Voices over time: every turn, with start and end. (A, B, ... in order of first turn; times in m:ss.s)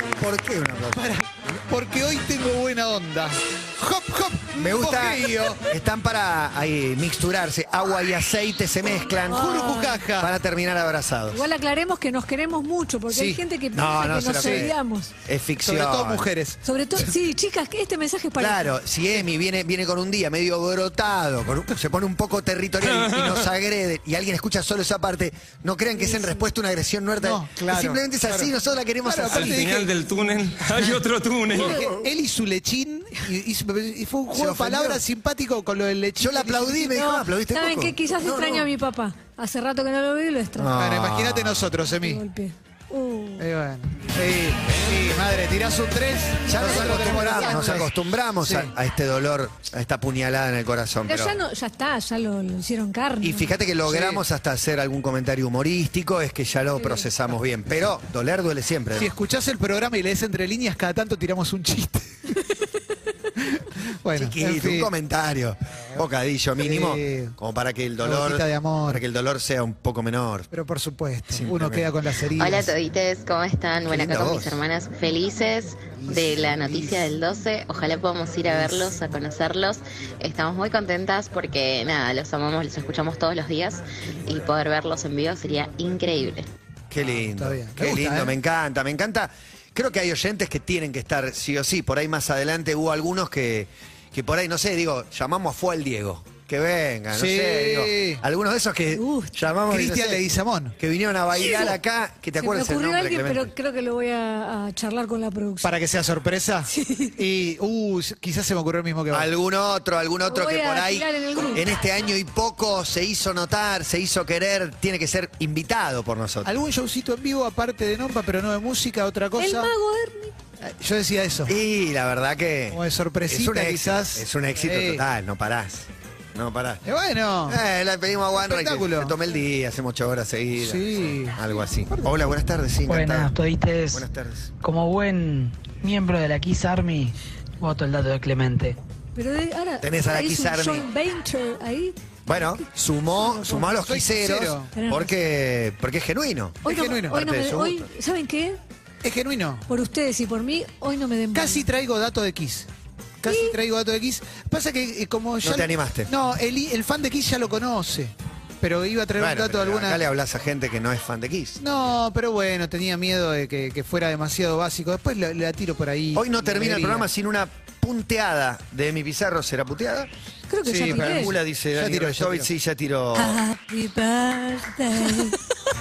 0:00.2-0:01.1 A
0:00.9-0:05.6 B
0:04.6-0:11.4 A
0:09.3-0:10.3 B
0:09.3-0:10.0 C
0:11.3-0:15.1 C
0:13.1-0:13.4 B
0:13.7-0:16.3 A
0:14.3-0:14.7 B
0:15.6-0:16.6 B
0:16.6-0:18.8 C
0:18.4-0:29.8 A
0:27.2-0:28.5 B
0:29.0-0:31.0 B
0:29.4-0:31.7 D
0:31.5-0:31.9 C
0:31.5-0:37.0 B
0:34.3-0:35.0 A
0:36.2-0:38.7 A
0:36.9-0:40.7 C
0:40.6-0:41.7 A
0:40.8-0:42.2 B
0:41.8-0:43.5 C
0:43.4-0:47.9 B
0:46.5-0:51.4 A
0:46.6-0:47.7 C
0:48.4-0:48.7 B
0:51.1-0:53.6 C
0:53.2-0:59.1 A
0:53.9-0:54.2 B
0:56.8-0:57.1 C
0:59.0-1:02.4 B
1:03.4-1:04.9 B
1:04.2-1:10.5 A
1:06.6-1:07.4 B
1:08.0-1:09.0 B
1:10.5-1:12.7 B
1:11.3-1:11.9 A
1:12.4-1:26.5 E
1:13.9-1:14.6 A
1:16.0-1:16.9 B
1:26.9-1:40.3 A
1:27.2-1:28.4 B
1:37.1-1:38.2 B
1:38.9-1:39.3 C
1:39.7-1:40.8 B
1:40.8-1:43.5 A
1:41.4-1:41.8 C
1:42.4-1:45.8 C
1:45.6-1:49.3 B
1:46.7-1:47.2 C
1:49.1-1:56.6 A
1:50.3-1:51.7 C
1:56.4-1:59.7 B
1:59.4-2:00.4 C
2:00.6-2:01.5 B
2:01.5-2:06.8 A
2:02.7-2:05.0 B
2:06.8-2:07.6 B
2:07.5-2:13.3 A
2:08.4-2:09.2 B
2:10.6-2:11.4 B
2:12.9-2:14.1 F
2:13.9-2:14.5 A
2:14.6-2:18.8 F
2:19.2-2:22.6 C
2:19.8-2:20.9 A
2:22.3-2:27.9 A
2:23.5-2:24.7 B
2:24.8-2:25.2 C
2:26.6-2:27.2 B
2:26.6-2:28.6 C
2:29.0-2:29.7 B
2:29.7-2:31.7 C
2:31.3-2:32.7 B
2:33.2-2:40.0 B
2:33.3-2:33.6 C
2:35.4-2:36.1 A
2:39.2-2:41.8 A
2:41.6-2:47.1 B
2:46.2-2:50.1 A
2:50.5-2:51.3 C
2:50.6-2:52.5 B
2:50.8-2:53.4 A
2:53.2-2:55.5 C